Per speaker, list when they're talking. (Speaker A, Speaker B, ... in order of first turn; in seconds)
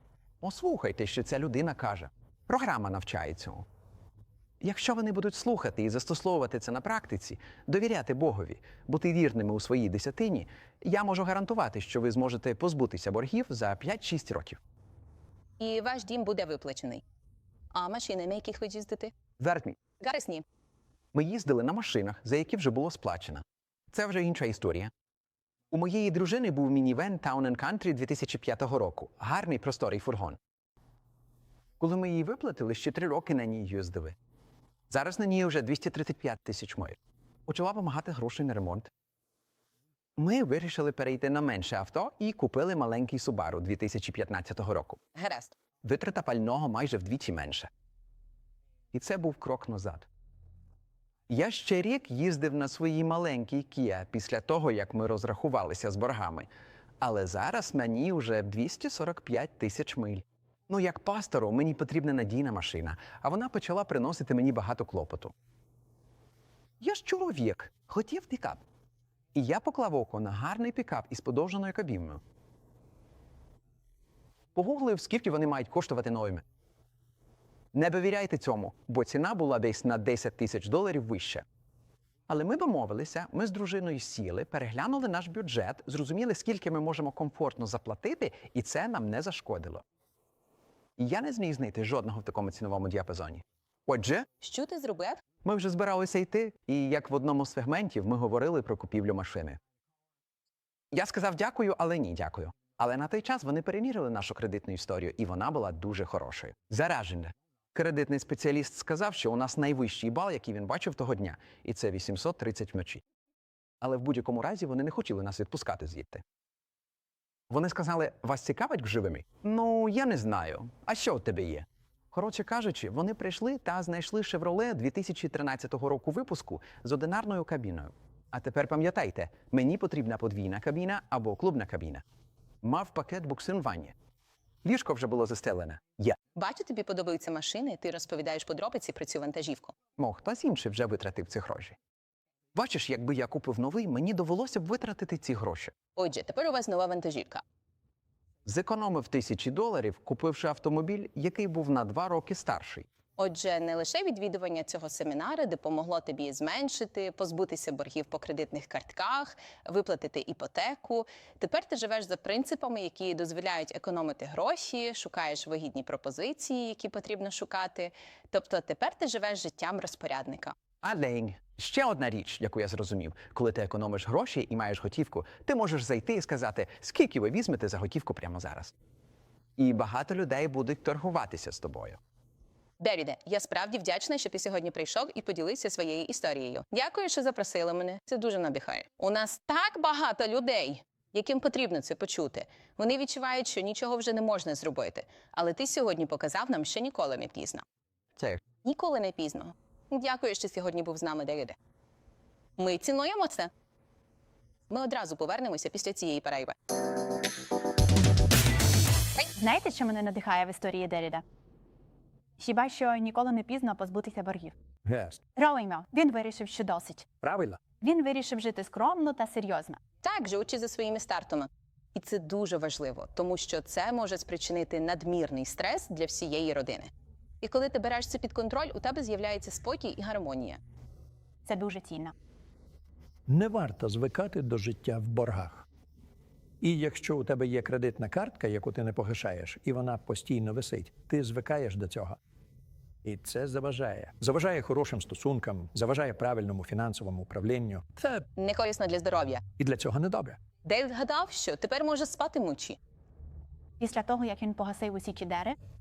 Speaker A: 0.4-3.6, 4.6-14.6, 19.4-19.8, 21.1-24.9, 25.7-30.4, 31.8-34.1, 34.9-37.0, 37.5-38.9, 40.2-45.0, 45.8-47.7, 48.9-50.0, 51.3-56.5, 57.0-65.3, 66.8-68.6, 69.3-72.2, 74.5-76.4, 77.7-81.4, 82.3-89.8, 91.0-94.3, 95.4-99.6, 100.9-113.0, 113.8-116.2, 117.5-132.0, 132.6-133.9, 134.6-136.2, 140.0-141.8, 142.5-145.7, 148.4-152.8, 170.8-178.7, 179.6-182.0
Speaker B: 15.6-17.0, 17.7-19.1, 20.0-20.4, 45.1-45.5, 94.4-95.2, 136.3-139.7, 145.9-147.4, 153.2-170.5, 182.8-197.6, 198.6-201.6, 202.6-203.5, 204.7-206.5, 220.0-226.9, 227.4-230.6, 248.4-249.4, 250.6-252.8
Speaker C: 209.3-211.2, 212.4-214.5, 215.3-217.1, 217.8-219.8, 231.4-232.1, 253.8-255.6
Speaker D: 214.8-215.2, 217.2-217.6, 233.3-235.7, 236.6-242.2, 243.0-248.3, 249.6-250.4